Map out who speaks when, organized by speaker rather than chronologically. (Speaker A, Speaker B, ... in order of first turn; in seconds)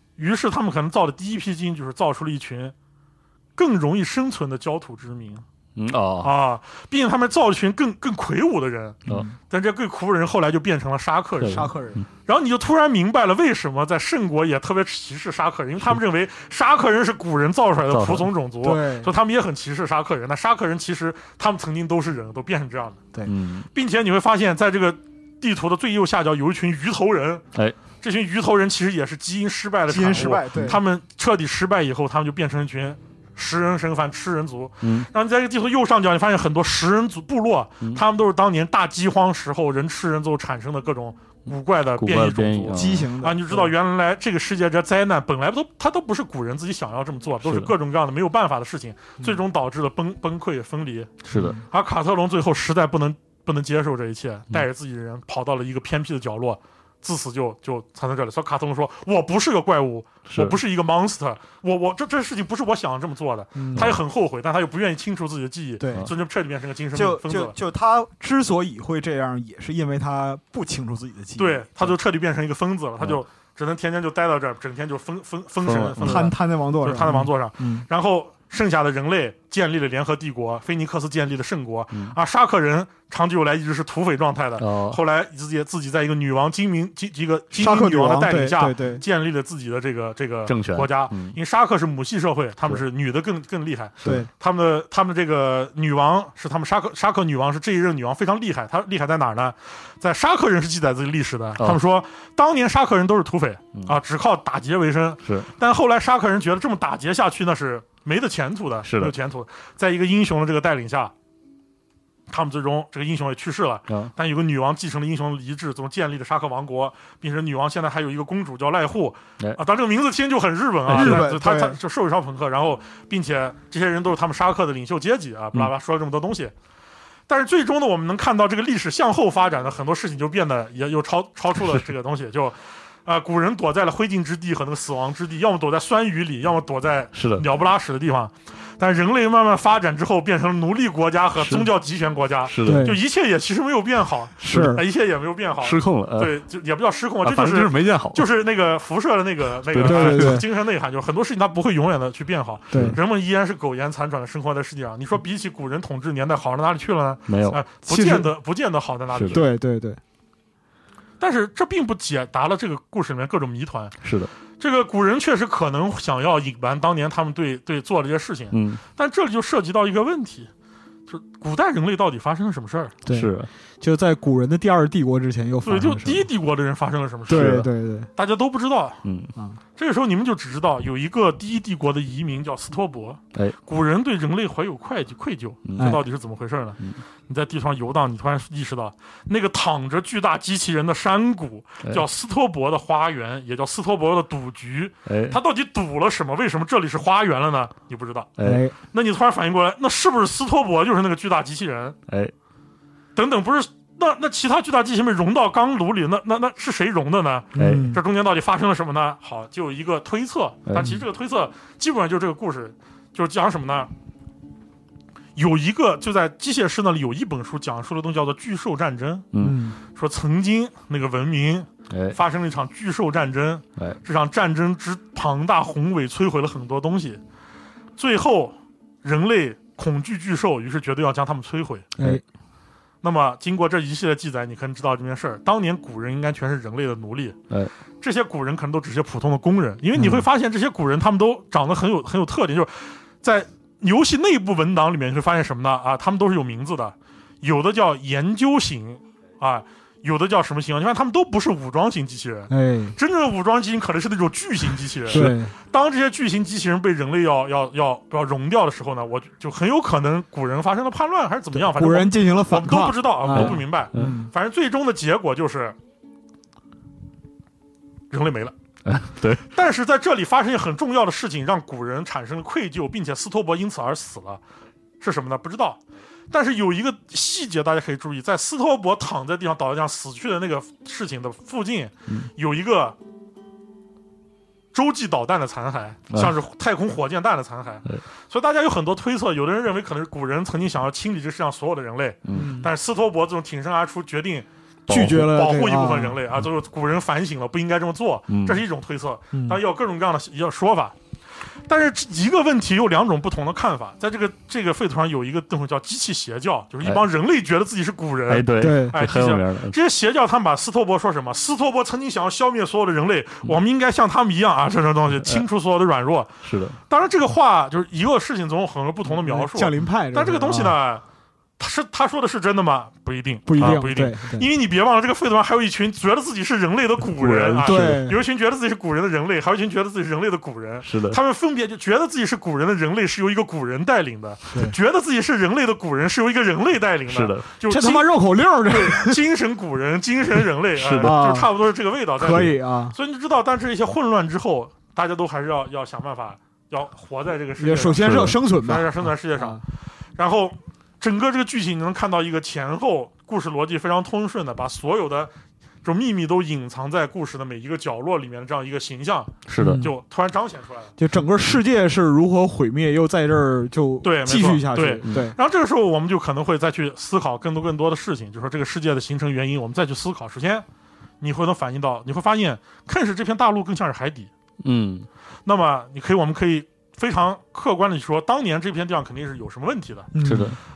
Speaker A: 0.2-2.7, 3.6-5.4, 6.2-11.7, 12.3-23.0, 23.7-27.4, 28.0-67.5, 71.4-111.1, 112.3-126.5, 127.3-159.5, 161.2-163.9, 164.6-170.5, 171.1-172.9, 175.6-177.7, 178.2-179.0, 179.8-198.3, 198.9-202.0, 203.2-213.9, 215.4-219.3, 219.9-227.2, 228.0-231.9, 233.0-237.4, 238.0-265.8, 268.1-268.5, 269.5-274.4, 275.0-275.8, 276.3-283.0, 284.7-301.0, 301.7-316.3, 316.9-321.0, 321.6-338.1, 338.7-349.6, 350.2-355.3, 355.8-360.9, 364.0-370.7, 371.2-374.3, 375.5-380.1
Speaker B: 5.8-6.3, 11.4-12.1, 17.9-18.3, 23.3-23.7, 34.8-35.1, 42.0-43.1, 47.4-47.7, 51.3-51.6, 60.3-60.6, 63.8-64.0, 75.6-76.3, 84.6-85.0, 90.5-91.4, 94.0-94.3, 105.2-105.5, 108.8-109.1, 120.9-121.2, 137.1-137.4, 141.4-141.7, 142.5-142.9, 144.4-144.8, 145.6-146.4, 147.2-148.3, 149.7-150.4, 152.7-153.0, 157.3-157.6, 159.1-159.4, 164.0-164.3, 168.5-168.8, 173.1-173.5, 177.3-177.7, 179.0-179.3, 185.7-186.0, 195.1-195.4, 198.4-198.7, 202.1-202.3, 207.6-207.9, 210.7-210.9, 219.3-219.6, 221.9-222.2, 232.0-232.2, 255.1-255.3, 263.3-264.2, 268.9-269.4, 292.3-292.5, 294.9-295.2, 298.3-298.6, 308.3-309.8, 316.4-316.8, 327.0-328.1, 330.9-331.2, 337.1-337.5, 340.8-341.2, 348.0-348.3, 359.5-359.9, 365.0-365.3, 374.6-375.1, 380.2-380.6
Speaker C: 9.1-9.3, 11.5-12.0, 18.6-19.1, 29.9-30.8, 42.7-43.7, 51.3-51.6, 63.6-64.0, 65.8-66.1, 66.9-71.9, 76.0-77.9, 87.5-89.0, 94.0-94.3, 120.9-121.8, 142.6-143.0, 144.4-144.8, 149.8-150.5, 152.7-153.0, 157.8-158.3, 159.3-160.0, 173.1-176.3, 177.3-178.1, 185.8-186.0, 198.4-198.8, 207.5-208.0, 219.4-219.8, 240.0-240.2, 252.5-253.0, 255.1-255.5, 261.5-264.3, 292.3-292.7, 294.9-296.2, 299.3-299.6, 308.6-309.0, 319.1-320.8, 323.5-324.5, 327.6-328.2, 337.6-339.2, 341.0-341.5, 342.2-343.0, 347.6-349.6, 359.6-359.9, 361.0-365.4, 380.1-380.6